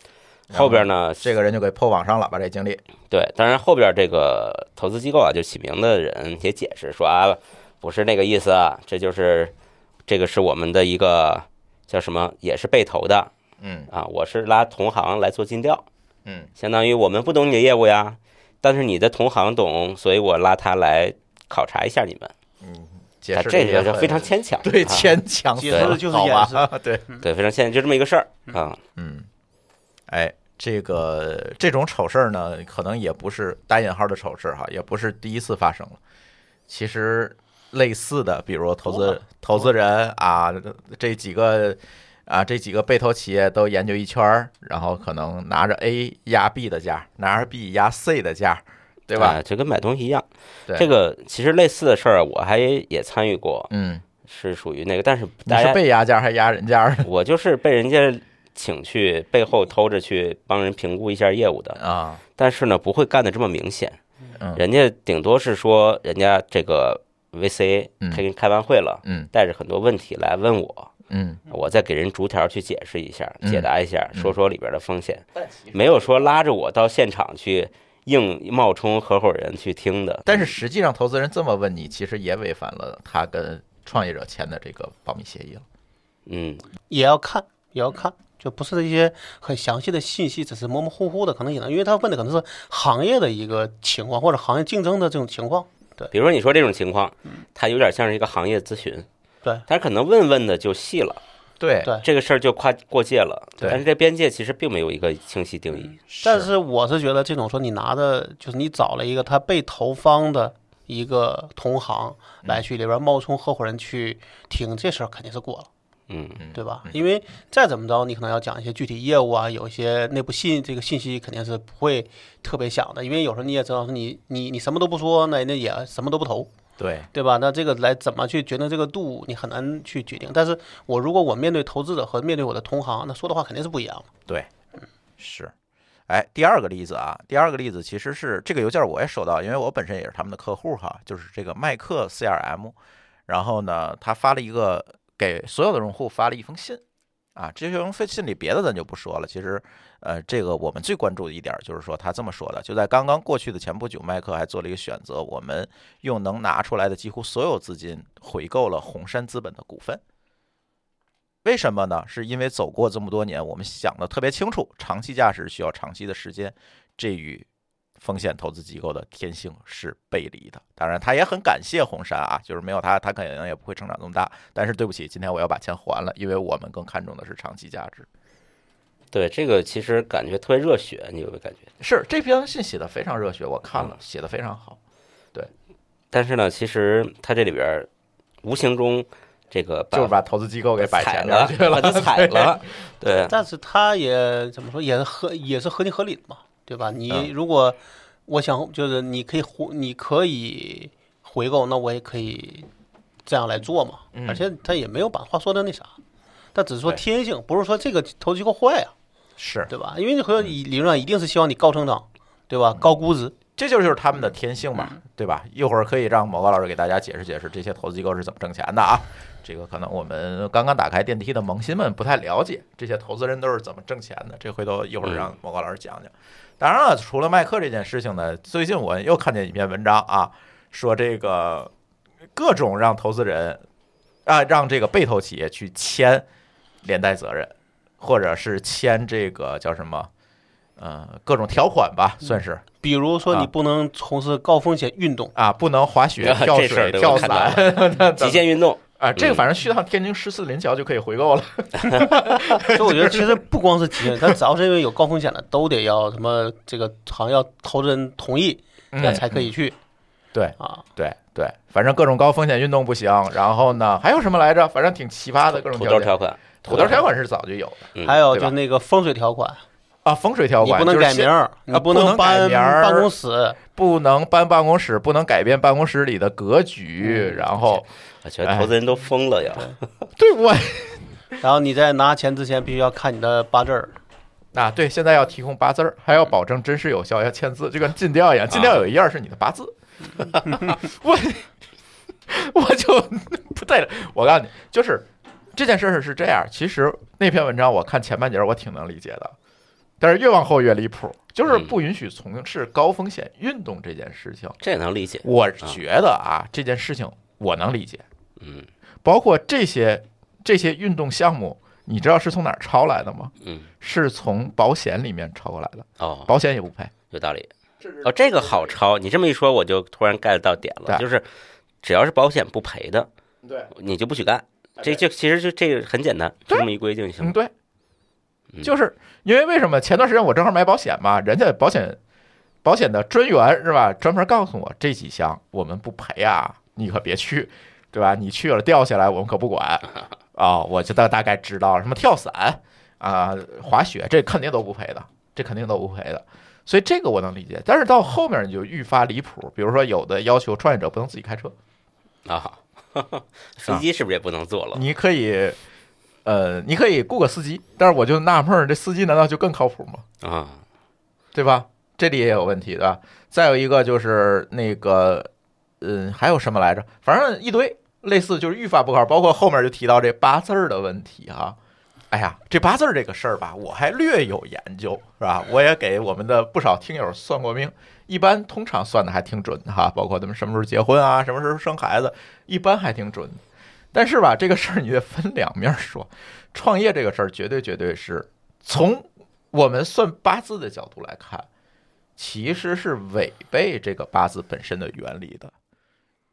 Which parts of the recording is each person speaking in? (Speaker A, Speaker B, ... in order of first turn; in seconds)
Speaker A: 0.5-1.3, 3.1-9.5, 10.1-13.3, 13.9-15.9, 16.6-22.3, 23.3-25.1, 25.7-26.0, 27.2-28.8, 49.2-53.7, 54.2-55.8, 57.0-61.8, 62.4-64.0, 64.6-70.9, 71.5-80.5, 86.3-86.7, 96.1-99.1, 99.7-101.2, 102.0-106.0, 116.1-116.4, 179.1-181.7, 186.1-187.9, 188.4-190.1, 190.8-193.3, 225.1-225.3, 246.2-249.5, 265.5-267.0, 268.0-268.2, 278.2-279.9, 288.5-288.8, 301.5-301.8, 304.6-305.8, 308.4-308.7, 313.4-313.7, 316.0-316.3, 317.1-317.5, 318.0-321.2, 321.8-323.1, 323.7-327.4, 352.3-354.9, 360.2-360.6
Speaker B: 0.5-2.8, 13.6-13.9, 22.6-27.1, 29.0-29.3, 30.1-36.0, 36.7-49.4, 53.7-54.0, 55.5-57.1, 61.8-62.2, 71.1-71.4, 73.4-74.3, 75.4-76.1, 80.3-85.7, 101.6-101.9, 106.1-106.5, 116.4-117.0, 126.8-127.1, 135.2-135.5, 136.1-142.8, 143.3-146.8, 147.4-160.0, 161.4-167.5, 168.0-178.1, 181.8-184.8, 189.9-192.7, 204.1-204.4, 209.4-209.7, 213.6-231.7, 232.3-233.6, 234.3-236.2, 236.8-240.1, 240.8-242.7, 245.3-248.5, 249.0-253.4, 254.0-254.3, 258.9-259.5, 260.3-268.5, 270.1-273.1, 273.8-277.9, 278.4-278.7, 280.2-281.1, 284.5-291.5, 292.3-299.4, 300.0-304.6, 305.2-308.1, 309.0-316.9, 317.8-318.7, 323.4-323.7, 327.2-327.5, 328.6-332.0, 332.6-351.5, 354.7-355.6, 356.2-360.1, 361.3-365.3, 365.8-371.6, 372.1-383.4, 383.9-391.5, 392.2-395.5
Speaker C: 25.6-27.2, 38.9-39.2, 86.9-96.1, 106.2-115.7, 116.5-126.5, 127.1-134.1, 193.3-197.8, 198.3-202.7, 203.3-205.9, 206.6-208.9, 209.7-213.3, 242.8-245.3, 252.6-259.8, 266.7-267.0, 268.0-269.6, 270.6-273.6, 281.4-284.0